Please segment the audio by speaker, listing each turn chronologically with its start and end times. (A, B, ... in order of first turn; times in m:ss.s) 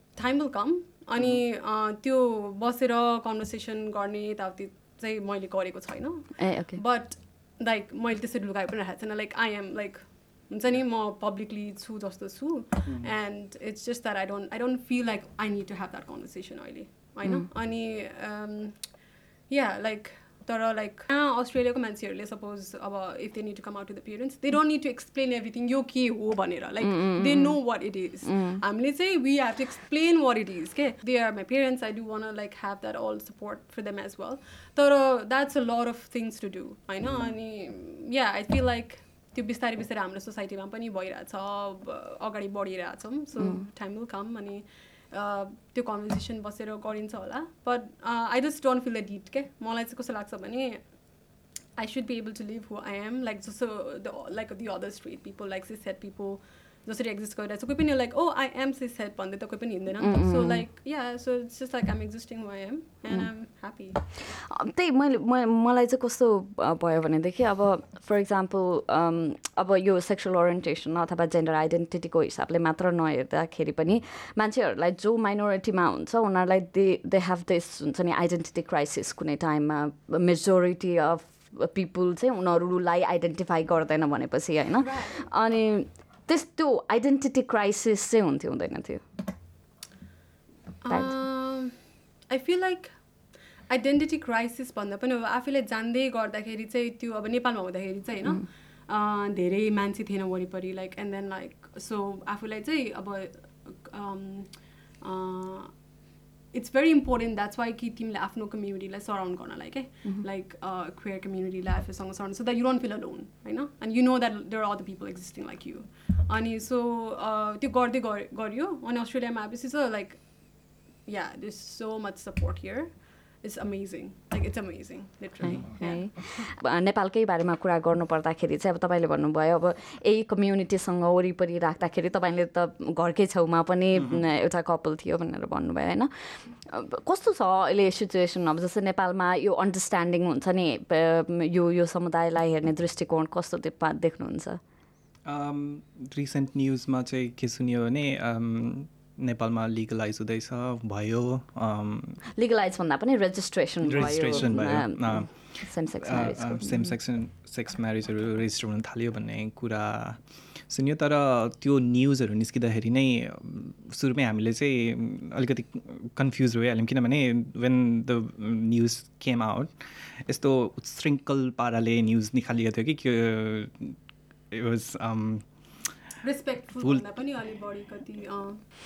0:00.1-0:51.1 A
0:06.4-0:06.8 B
0:26.8-0:28.6 B
0:43.4-0:43.6 B
0:51.8-1:04.0 A
1:00.0-1:00.6 B
1:04.2-1:29.0 B
1:24.8-1:25.3 A
1:30.8-1:31.8 A
1:32.3-1:33.0 A
1:33.7-1:45.8 A
1:46.5-2:06.5 A
2:05.4-2:24.6 B
2:25.3-2:32.2 C
2:32.4-2:37.0 B
2:33.8-2:35.4 C
2:36.0-2:49.7 C
2:50.3-2:54.0 C
2:54.5-2:55.4 C
2:56.2-2:58.6 A